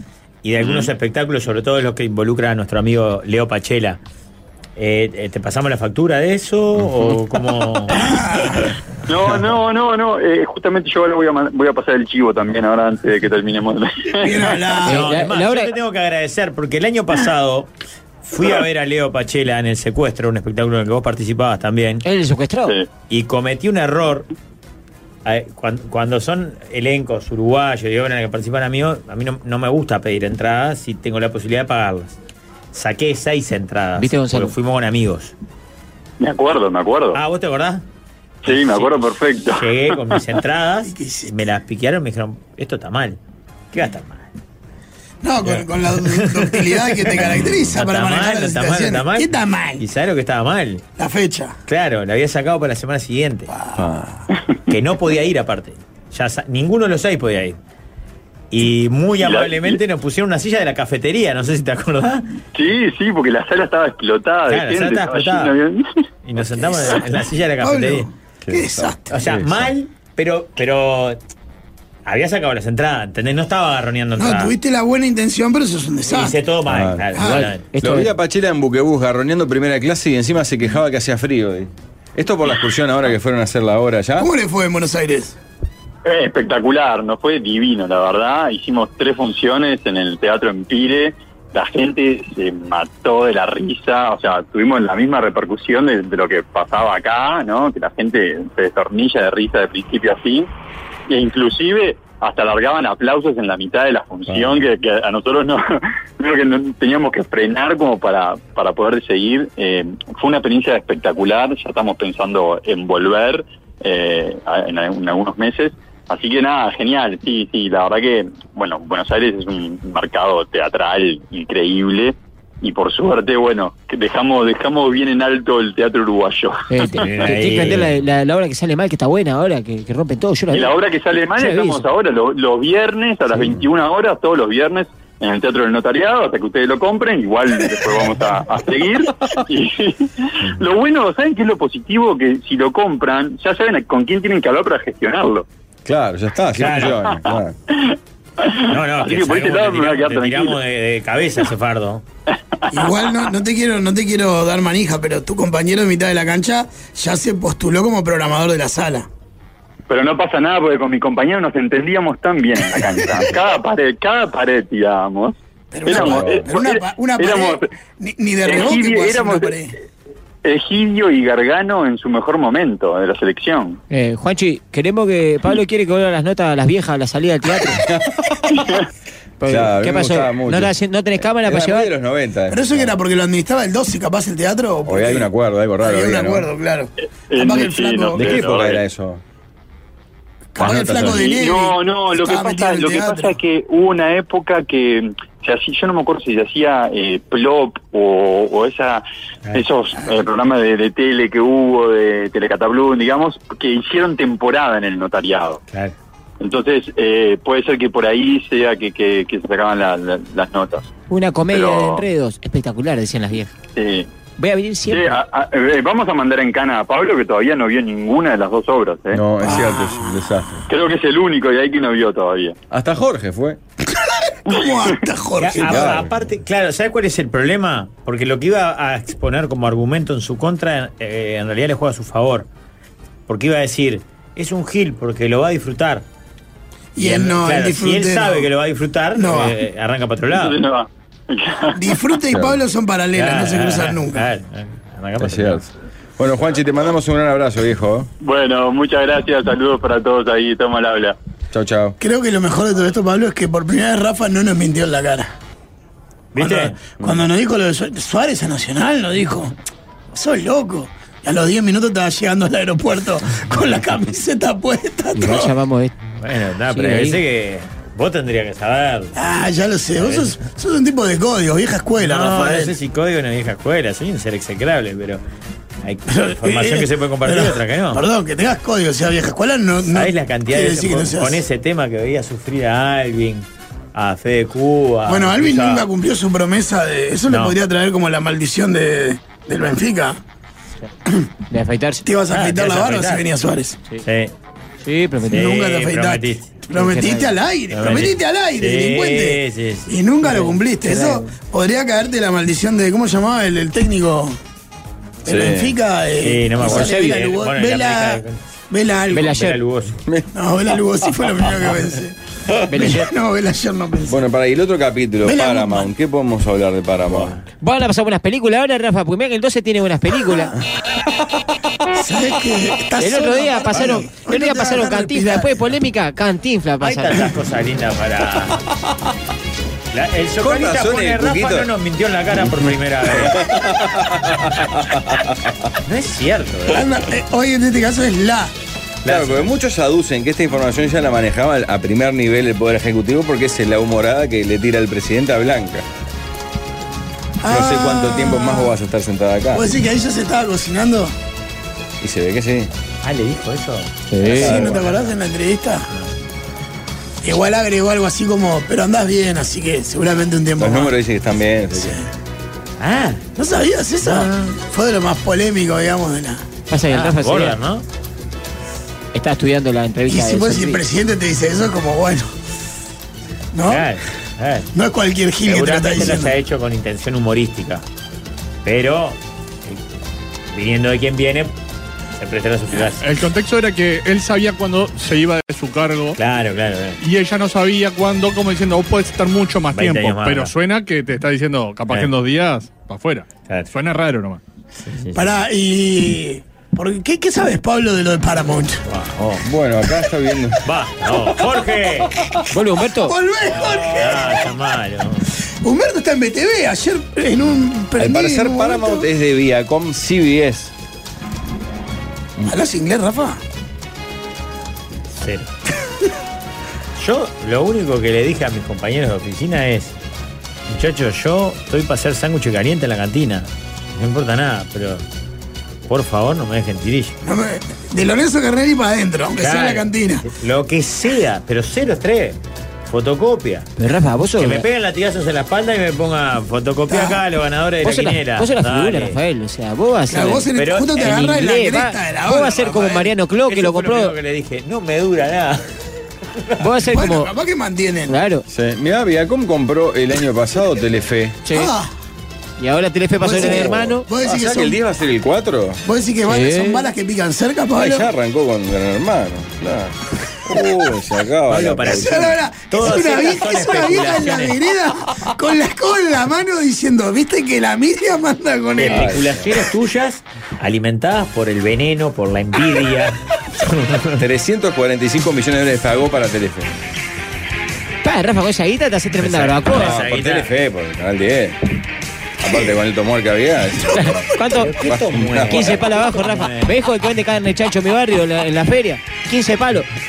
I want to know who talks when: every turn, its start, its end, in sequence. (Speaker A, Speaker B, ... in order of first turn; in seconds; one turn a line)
Speaker A: 0.4-4.0
Speaker B: 0.6-0.9
Speaker A: 4.8-8.5
Speaker C: 7.9-8.7
Speaker B: 9.1-14.5
Speaker C: 14.2-15.0
Speaker A: 14.4-17.7
Speaker D: 14.8-15.7
Speaker A: 18.2-22.0
Speaker D: 22.1-22.8
Speaker A: 23.1-24.3
Speaker A: 25.2-32.1
Speaker A: 32.7-35.3
Speaker D: 34.0-34.5
Speaker B: 36.2-37.2
Speaker A: 37.1-37.8
Speaker B: 38.4-39.7
Speaker A: 38.5-38.9
Speaker A: 39.5-43.2
Speaker C: 40.9-41.3
Speaker A: 43.7-44.3
Speaker C: 45.2-49.8
Speaker A: 45.4-50.8
Speaker E: 47.2-47.7
Speaker C: 51.0-51.6
Speaker A: 51.7-53.5
Speaker C: 53.5-53.8
Speaker E: 53.7-54.3
Speaker A: 54.7-57.6
Speaker A: 58.5-62.3
Speaker B: 59.2-59.8
Speaker B: 62.5-65.8
Speaker A: 64.5-65.5
Speaker A: 66.2-68.1
Speaker C: 66.6-67.0
Speaker C: 67.6-69.1
Speaker E: 68.4-69.7
Speaker A: 69.1-71.2
Speaker A: 72.1-74.5
Speaker C: 74.2-76.4
Speaker A: 76.1-77.6
Speaker E: 76.7-77.1
Speaker C: 77.2-77.5
Speaker D: 77.2-78.1
Speaker E: 77.8-84.3
Speaker C: 84.2-85.4
Speaker B: 86.0-100.5
Speaker B: 101.1-127.1
Speaker D: 126.7-130.8
Speaker A: 127.0-127.9
Speaker B: 130.5-145.4
Speaker D: 131.4-131.8
Speaker E: 145.8-147.6
Speaker A: 146.6-147.0
Speaker B: 147.7-150.6
Speaker A: 148.7-152.0
Speaker B: 152.6-152.9
Speaker C: 152.7-159.1
Speaker B: 159.9-165.3
Speaker C: 165.7-169.7
Speaker B: 165.9-167.7
Speaker E: 165.9-166.5
Speaker B: 168.4-169.6
Speaker B: 170.4-173.8
Speaker D: 173.9-177.8
Speaker E: 177.8-178.6
Speaker B: 178.5-178.8
Speaker D: 179.4-181.9
Speaker E: 179.5-182.9
Speaker C: 182.5-185.3
Speaker E: 184.8-186.5
Speaker C: 185.8-188.4
Speaker B: 187.3-188.8
Speaker E: 188.1-189.2
Speaker C: 190.6-193.3
Speaker E: 190.6-191.3
Speaker B: 191.0-205.6
Speaker B: 206.4-210.9
Speaker D: 211.1-213.5
Speaker B: 211.5-212.1
Speaker B: 213.8-214.1
Speaker D: 214.4-215.2
Speaker B: 214.9-219.2
Speaker E: 219.1-220.7
Speaker C: 219.4-220.4
Speaker B: 220.7-222.6
Speaker E: 222.7-223.6
Speaker C: 223.9-225.9
Speaker B: 224.5-224.9
Speaker A: 225.4-232.5
Speaker E: 225.6-226.1
Speaker A: 233.3-236.0
Speaker C: 237.0-238.5
Speaker A: 237.0-240.6
Speaker C: 239.2-239.6
Speaker B: 240.3-241.8
Speaker C: 241.7-244.2
Speaker E: 242.3-242.6
Speaker A: 243.1-245.6
Speaker E: 245.2-248.1
Speaker B: 248.2-251.2
Speaker E: 251.5-252.0
Speaker C: 252.0-255.3
Speaker A: 256.3-256.8
Speaker C: 256.4-259.5
Speaker E: 257.0-257.2
Speaker C: 260.1-265.5
Speaker D: 265.1-265.9
Speaker A: 266.2-269.2
Speaker D: 266.7-267.2
Speaker C: 269.2-272.7
Speaker A: 270.0-270.4
Speaker A: 272.0-275.2
Speaker A: 275.8-278.0
Speaker C: 276.1-281.4
Speaker A: 279.9-285.9
Speaker C: 285.1-290.2
Speaker A: 287.3-287.6
Speaker D: 291.5-292.0
Speaker C: 292.1-293.8
Speaker A: 292.3-293.2
Speaker A: 294.0-294.3
Speaker D: 294.8-295.4
Speaker A: 295.3-296.5
Speaker C: 295.3-304.4
Speaker D: 296.7-297.3
Speaker A: 297.7-299.9
Speaker D: 300.2-301.3
Speaker E: 305.2-305.8
Speaker C: 305.2-309.4
Speaker A: 306.2-308.4
Speaker D: 306.6-307.1
Speaker D: 309.1-309.6
Speaker A: 309.1-310.0
Speaker C: 310.3-312.2
Speaker D: 312.7-313.1
Speaker C: 312.7-314.3
Speaker E: 314.1-317.4
Speaker C: 315.2-315.9
Speaker A: 317.1-317.5
Speaker D: 317.6-320.5
Speaker C: 321.9-325.6
Speaker D: 323.0-327.2
Speaker A: 326.8-328.6
Speaker A: 329.9-333.4
Speaker E: 330.4-331.7
Speaker E: 333.0-335.6
Speaker A: 335.9-336.9
Speaker C: 336.7-338.5
Speaker A: 339.0-339.5
Speaker E: 339.1-345.9
Speaker C: 347.4-348.8
Speaker E: 347.5-349.7
Speaker C: 349.5-351.1
Speaker E: 352.0-352.7
Speaker A: 353.0-355.2
Speaker D: 354.1-354.5
Speaker E: 354.3-354.8
Speaker C: 354.4-355.9
Speaker C: 357.2-360.9
Speaker E: 360.6-362.0
Speaker A: 362.8-363.2
Speaker C: 363.4-366.4
Speaker A: 364.0-364.6
Speaker D: 366.7-367.6
Speaker A: 366.9-367.9
Speaker D: 369.1-370.8
Speaker C: 370.1-372.3
Speaker C: 373.5-373.9
Speaker A: 373.7-374.7
Speaker C: 374.8-376.4
Speaker A: 375.4-377.8
Speaker A: 378.6-379.8
Speaker A: 380.5-381.5
Speaker A: 382.2-383.0
Speaker F: 383.0-386.2
Speaker A: 386.1-387.0
Speaker F: 387.0-394.4
Speaker A: 389.7-390.5
Speaker A: 394.8-395.4
Speaker C: 395.1-398.8
Speaker A: 398.9-399.4
Speaker E: 399.4-401.4
Speaker A: 400.6-402.3
Speaker D: 402.5-403.1
Speaker C: 403.0-404.5
Speaker A: 403.5-405.3
Speaker C: 405.6-409.1
Speaker E: 408.0-410.7
Speaker C: 412.5-413.4
Speaker A: 415.2-415.5
Speaker A: 417.0-419.9
Speaker A: 420.7-425.0
Speaker A: 425.9-427.1
Speaker C: 427.2-430.2
Speaker A: 429.4-433.7
Speaker D: 433.8-434.6
Speaker A: 434.4-439.2
Speaker C: 436.9-437.2
Speaker D: 437.8-444.1
Speaker C: 440.1-443.1
Speaker A: 440.6-441.2
Speaker A: 443.5-445.7
Speaker D: 446.6-447.3
Speaker C: 446.9-448.2
Speaker D: 448.1-448.4
Speaker E: 448.5-451.4
Speaker D: 451.5-451.7
Speaker C: 451.5-451.9
Speaker D: 452.6-454.1
Speaker C: 453.2-454.8
Speaker E: 453.4-455.8
Speaker C: 455.9-458.1
Speaker D: 456.3-456.9
Speaker E: 457.8-462.3
Speaker A: 461.5-464.6
Speaker C: 461.9-469.3
Speaker A: 468.8-474.2
Speaker E: 468.9-469.5
Speaker E: 474.2-476.8
Speaker D: 478.0-479.9
Speaker A: 479.2-480.5
Speaker E: 479.7-481.6
Speaker E: 482.4-485.9
Speaker D: 483.9-484.8
Speaker A: 484.5-486.7
Speaker D: 485.4-489.9